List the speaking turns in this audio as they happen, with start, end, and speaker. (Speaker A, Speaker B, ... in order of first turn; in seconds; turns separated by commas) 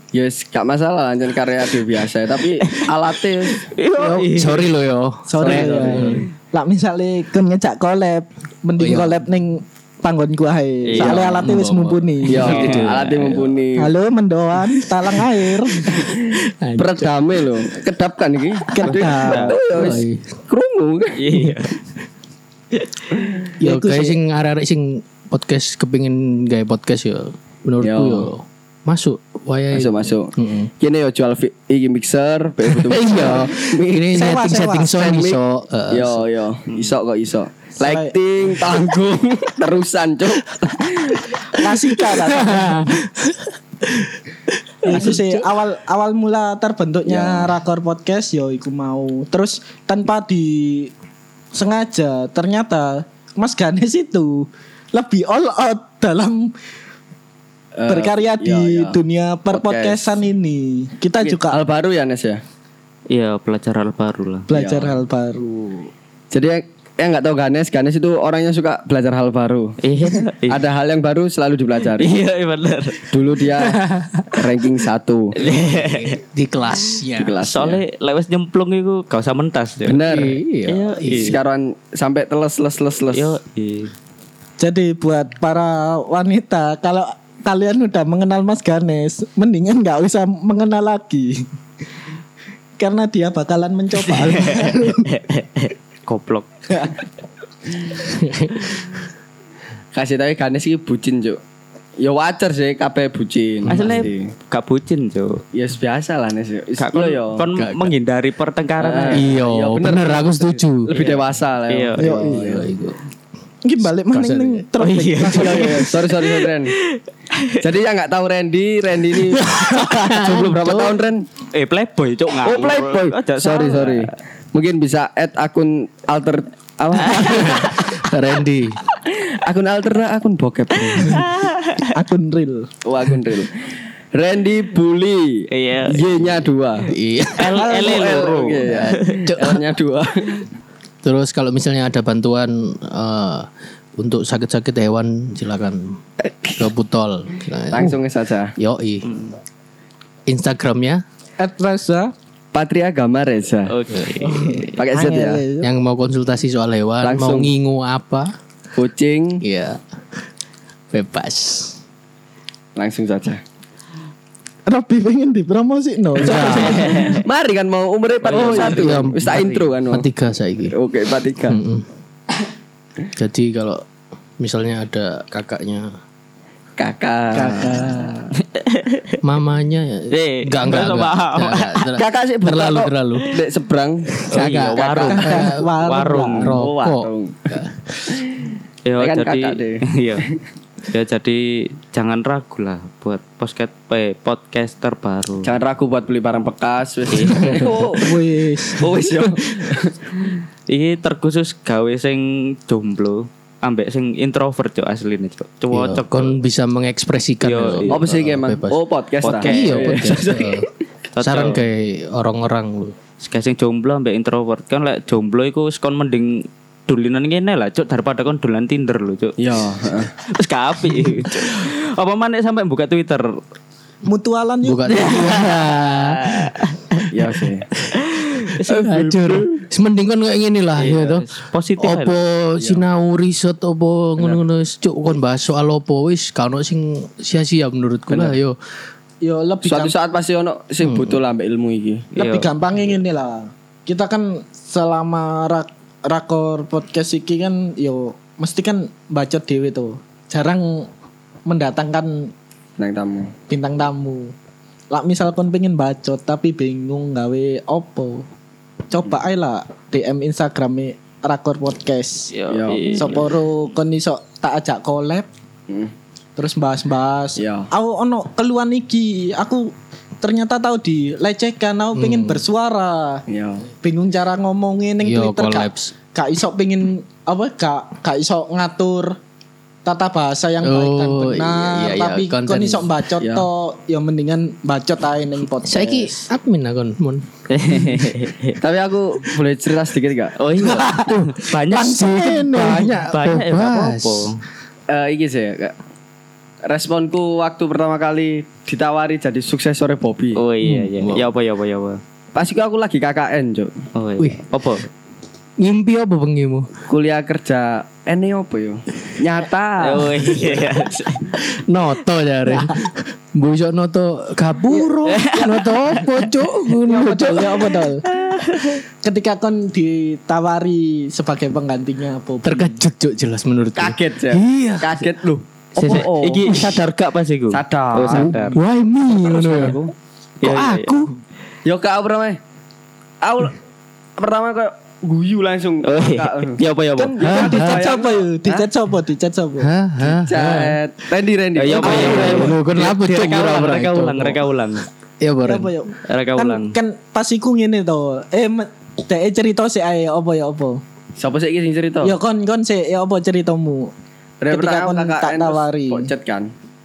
Speaker A: 0.1-3.6, Speaker B: 2.6-2.9, Speaker B: 3.5-4.7, Speaker C: 3.9-6.3, Speaker D: 5.3-12.6, Speaker A: 5.4-6.2, Speaker C: 8.8-9.2, Speaker B: 10.9-11.3, Speaker C: 10.9-13.3, Speaker A: 11.0-11.2, Speaker A: 12.3-13.9, Speaker B: 12.3-13.4, Speaker D: 13.8-16.1, Speaker C: 15.8-17.1, Speaker A: 15.9-21.4, Speaker D: 18.7-19.6, Speaker C: 18.8-19.1, Speaker B: 19.0-19.6, Speaker C: 19.7-20.4, Speaker B: 21.2-21.8, Speaker B: 22.7-23.2, Speaker D: 23.6-24.2, Speaker C: 23.6-30.7, Speaker A: 27.8-28.3, Speaker A: 29.7-34.2, Speaker C: 32.6-36.2, Speaker D: 34.1-34.9, Speaker A: 34.8-35.4, Speaker A: 35.9-41.3, Speaker B: 36.7-36.9, Speaker D: 37.8-38.1, Speaker D: 41.5-42.9, Speaker C: 41.9-45.5, Speaker D: 44.8-50.9, Speaker A: 47.0-47.5, Speaker D: 51.5-56.5, Speaker A: 57.7-60.2, Speaker D: 57.9-61.6, Speaker A: 61.2-62.4, Speaker B: 63.1-64.5, Speaker D: 64.5-65.9, Speaker A: 64.5-65.0, Speaker A: 66.3-69.8, Speaker B: 69.8-70.6, Speaker A: 70.5-72.1, Speaker B: 72.0-73.1, Speaker A: 73.1-75.4, Speaker C: 73.8-74.3, Speaker B: 75.4-76.2, Speaker C: 75.4-77.4, Speaker B: 77.0-80.0, Speaker A: 77.2-77.8, Speaker A: 79.8-80.3, Speaker C: 80.0-81.4, Speaker B: 80.7-81.4, Speaker A: 81.1-83.4, Speaker B: 83.1-83.9, Speaker D: 84.6-91.5, Speaker D: 92.8-95.1, Speaker B: 94.1-96.6, Speaker C: 98.1-98.7, Speaker A: 99.9-101.4, Speaker A: 102.0-104.3, Speaker C: 103.6-104.1, Speaker B: 103.7-105.4, Speaker A: 105.5-107.4, Speaker B: 106.8-109.3, Speaker C: 107.5-107.9, Speaker A: 108.8-112.7, Speaker C: 109.1-111.0, Speaker B: 110.9-112.3, Speaker D: 112.0-112.3, Speaker C: 112.2-113.0, Speaker D: 113.6-115.8, Speaker C: 113.8-114.7, Speaker B: 114.8-117.6, Speaker A: 115.3-116.7, Speaker A: 117.6-121.2, Speaker C: 119.3-121.0, Speaker B: 121.5-124.1, Speaker A: 122.4-127.8, Speaker B: 127.0-127.9, Speaker C: 127.3-128.8, Speaker A: 129.1-131.2, Speaker B: 130.8-131.9, Speaker D: 131.9-132.7, Speaker A: 132.8-133.5, Speaker A: 134.1-136.9, Speaker B: 135.5-136.1, Speaker C: 136.9-137.7, Speaker B: 137.4-139.4, Speaker A: 137.5-140.4, Speaker D: 137.6-138.1, Speaker C: 138.7-139.6, Speaker C: 141.0-146.0, Speaker A: 146.2-146.7, Speaker C: 146.6-148.0, Speaker A: 147.7-148.5, Speaker C: 148.6-149.1, Speaker B: 149.0-149.3, Speaker C: 150.3-151.0, Speaker D: 151.4-152.1, Speaker A: 152.5-153.7, Speaker B: 153.7-154.7, Speaker C: 153.9-154.7, Speaker D: 154.3-155.7, Speaker A: 154.7-155.4, Speaker C: 155.6-158.3, Speaker A: 157.0-157.5, Speaker A: 158.7-159.4, Speaker C: 159.4-159.8, Speaker C: 160.9-161.8, Speaker A: 162.8-163.4, Speaker D: 164.7-167.1, Speaker C: 166.2-167.1, Speaker A: 166.2-170.1, Speaker B: 166.4-167.2, Speaker B: 168.2-169.7, Speaker C: 168.4-170.8, Speaker A: 170.7-171.6, Speaker C: 171.5-171.8, Speaker C: 173.2-173.8, Speaker C: 174.4-175.9, Speaker A: 176.8-178.2, Speaker D: 177.3-178.3, Speaker B: 178.4-179.2, Speaker C: 179.2-183.3, Speaker B: 180.1-182.0, Speaker A: 181.9-185.4, Speaker C: 184.2-185.7, Speaker B: 184.2-186.6, Speaker D: 185.1-186.5, Speaker C: 186.3-188.1, Speaker A: 186.5-187.5, Speaker A: 188.1-190.4, Speaker B: 188.8-190.2, Speaker B: 190.9-195.6, Speaker A: 195.4-198.1, Speaker B: 197.1-197.8, Speaker D: 198.0-199.0, Speaker A: 198.7-199.9, Speaker B: 200.7-206.3, Speaker C: 205.7-210.7, Speaker B: 207.4-208.1, Speaker A: 207.9-210.7, Speaker B: 209.2-210.4, Speaker B: 211.1-211.6, Speaker C: 211.2-212.9, Speaker B: 213.2-219.4, Speaker A: 219.4-220.1, Speaker B: 220.2-223.4, Speaker D: 224.1-225.4, Speaker C: 224.6-226.6, Speaker B: 224.9-227.1, Speaker A: 227.1-227.7, Speaker B: 228.1-228.7, Speaker C: 228.6-231.3, Speaker A: 228.6-229.6, Speaker B: 230.8-232.2, Speaker C: 231.8-238.6, Speaker A: 238.1-238.4, Speaker D: 239.2-239.9, Speaker A: 239.6-242.1, Speaker C: 240.8-241.2, Speaker B: 242.2-242.5, Speaker D: 242.2-250.9, Speaker D: 251.5-252.3, Speaker A: 252.8-253.3, Speaker D: 253.5-254.3, Speaker D: 254.9-258.2, Speaker D: 258.9-262.3, Speaker B: 262.3-263.3, Speaker A: 262.5-263.2, Speaker D: 262.9-265.3, Speaker D: 266.4-273.2, Speaker A: 267.4-267.7, Speaker C: 271.9-272.4, Speaker A: 273.3-273.6, Speaker D: 273.8-279.2, Speaker C: 275.0-275.9, Speaker D: 279.8-286.3, Speaker C: 280.6-282.9, Speaker A: 283.2-283.5, Speaker C: 285.6-287.2, Speaker B: 287.5-288.6, Speaker A: 288.6-290.4, Speaker B: 290.4-294.4, Speaker C: 290.6-294.3, Speaker D: 290.8-291.1, Speaker D: 291.7-292.9, Speaker A: 294.9-295.7, Speaker A: 296.6-300.4, Speaker B: 300.4-302.0, Speaker C: 300.6-301.3, Speaker A: 302.3-303.7, Speaker B: 303.9-304.9, Speaker C: 305.6-306.7, Speaker A: 306.9-310.6, Speaker B: 309.8-311.4, Speaker C: 311.5-317.7, Speaker D: 312.5-312.8, Speaker D: 314.7-315.3, Speaker B: 315.1-316.3, Speaker D: 316.8-318.0, Speaker B: 318.0-318.8, Speaker D: 319.0-322.8, Speaker C: 322.4-325.1, Speaker A: 323.8-326.6, Speaker B: 325.8-328.6, Speaker C: 325.9-326.8, Speaker A: 327.5-328.6, Speaker C: 328.1-329.8, Speaker A: 329.2-329.9, Speaker B: 330.4-331.0, Speaker C: 330.4-331.1, Speaker A: 331.6-332.4, Speaker A: 333.2-333.6, Speaker A: 334.2-338.7, Speaker B: 335.8-337.2, Speaker D: 337.1-339.7, Speaker C: 337.2-337.8, Speaker C: 339.6-340.8, Speaker A: 340.0-342.6, Speaker B: 341.5-344.9, Speaker C: 341.8-344.4, Speaker D: 341.8-342.2, Speaker C: 345.2-345.7, Speaker D: 345.4-350.8, Speaker B: 346.1-346.7, Speaker A: 351.2-352.1, Speaker D: 352.0-353.9, Speaker A: 354.4-356.5, Speaker D: 354.5-356.1